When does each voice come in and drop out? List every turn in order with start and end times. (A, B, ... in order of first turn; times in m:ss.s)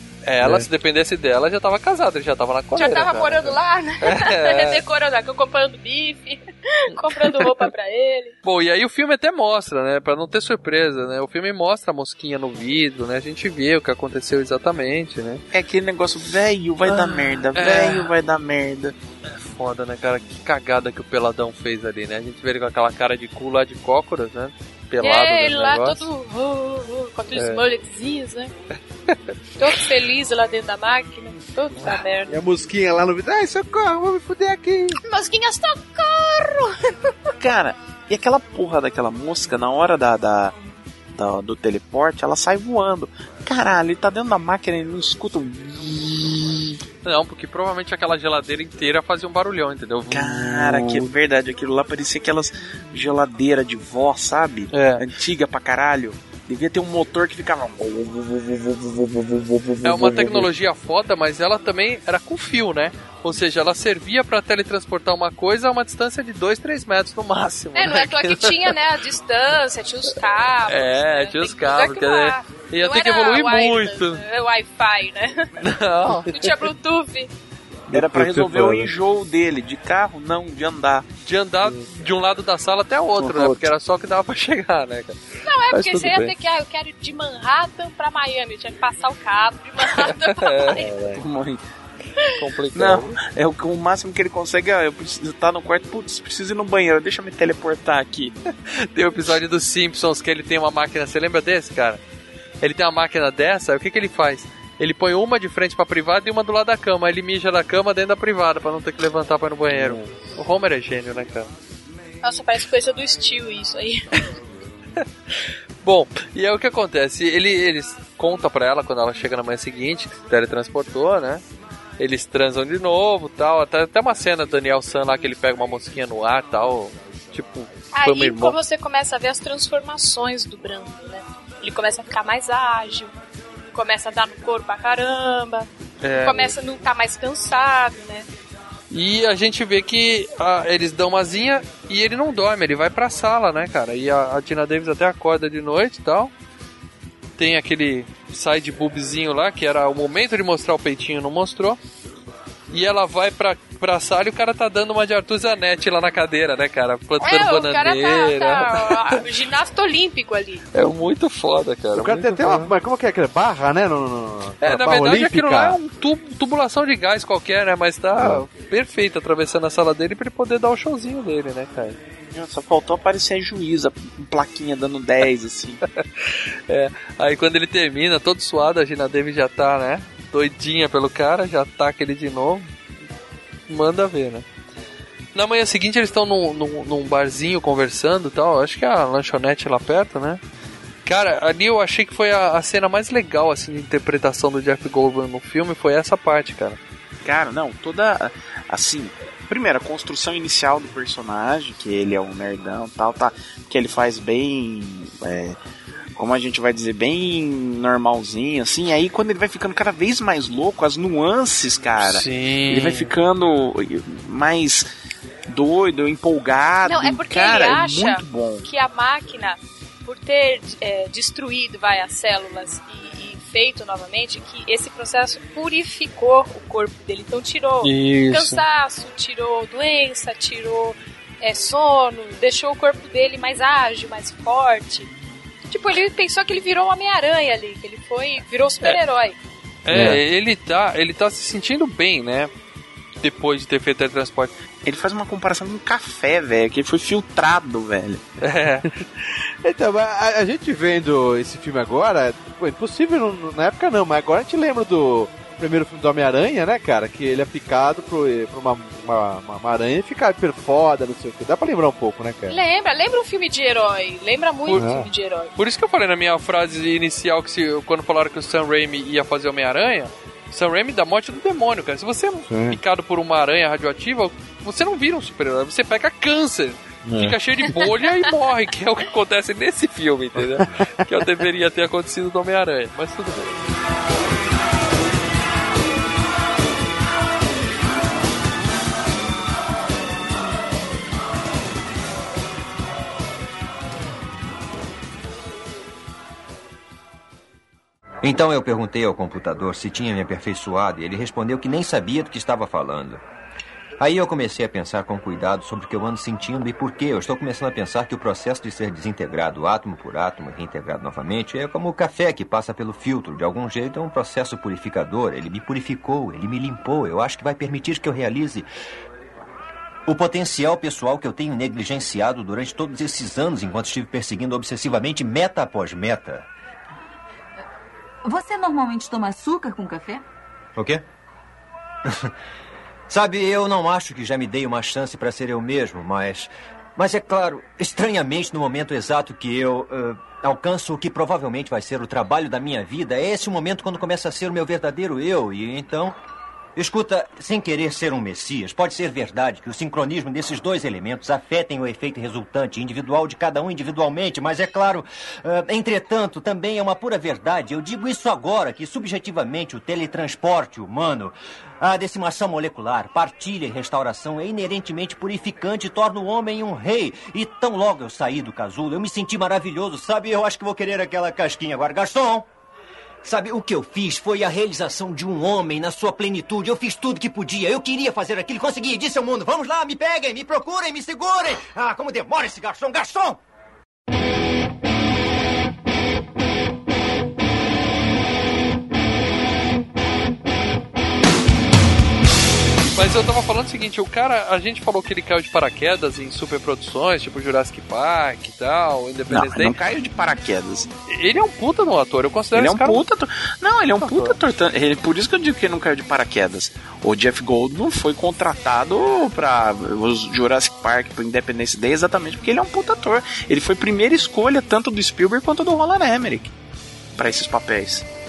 0:00.2-0:04.8 A
0:00.4-0:00.7 B
0:02.7-0:08.4 C
0:07.1-0:07.5 A
0:08.4-0:15.4 A
0:15.5-0:19.0 D
0:16.9-0:18.1 A
0:19.2-0:26.0 A
0:25.0-0:28.5 C
0:27.4-0:27.6 A
0:29.1-0:29.3 A
0:29.6-0:32.4 C
0:32.3-0:35.0 B
0:35.0-0:37.1 C
0:37.4-0:40.5 D
0:41.2-0:46.8 D
0:47.0-0:51.1 A
0:50.1-1:00.4 D
0:54.7-0:55.0 A
0:59.8-1:08.7 A
1:07.7-1:15.5 C
1:10.7-1:14.2 A
1:15.6-1:16.4 A
1:16.2-1:17.3 C
1:17.9-1:18.9 B
1:17.9-1:21.0 D
1:21.2-1:25.2 A
1:23.3-1:23.6 D
1:25.4-1:30.9 C
1:25.7-1:26.3 A
1:30.0-1:30.8 A
1:30.8-1:31.2 B
1:31.1-1:31.6 D
1:32.3-1:33.2 A
1:32.7-1:38.3 D
1:38.7-1:42.0 A
1:42.6-1:51.5 A
1:52.2-1:54.2 C
1:55.8-2:01.4 A
2:02.0-2:08.6 A
2:07.9-2:13.2 C
2:13.7-2:15.7 C
2:16.0-2:16.5 A
2:16.2-2:18.3 C
2:18.9-2:26.3 A
2:27.4-2:31.8 A
2:32.7-2:39.2 A
2:37.2-2:40.7 C
2:40.7-2:42.7 A
2:41.9-2:45.8 B
2:44.6-2:52.0 A
2:48.2-2:48.5 B
2:52.3-2:55.8 D
2:56.0-3:02.7 A
3:03.7-3:04.4 A
3:05.3-3:10.4 A
3:11.0-3:16.8 A
3:17.2-3:25.6 D
3:26.2-3:34.9 D
3:32.0-3:33.1 A
3:35.5-3:38.6 D
3:36.8-3:55.1 C
3:47.8-3:48.6 A
3:55.7-3:59.4 C
3:59.8-4:02.5 A
3:59.9-4:00.2 B
4:03.2-4:04.5 A
4:04.8-4:08.2 D
4:08.4-4:08.9 A
4:09.3-4:22.6 B
4:22.5-4:25.5 C
4:24.7-4:25.1 B
4:25.6-4:43.5 A
4:32.5-4:32.8 B
4:37.0-4:37.3 B
4:40.4-4:41.2 B
4:58.2-5:03.2 E
5:04.0-5:18.7 E
5:20.0-5:26.5 E
5:28.2-5:30.2 F
5:30.8-5:31.0 E
5:33.1-5:46.1 E
5:46.8-6:12.5 E
6:13.2-6:23.4 E
6:32.9-6:39.8 A
6:39.3-6:40.9 D
6:41.1-6:43.0 A
6:42.5-6:56.5 D
6:44.0-6:44.4 A
6:57.2-6:58.0 D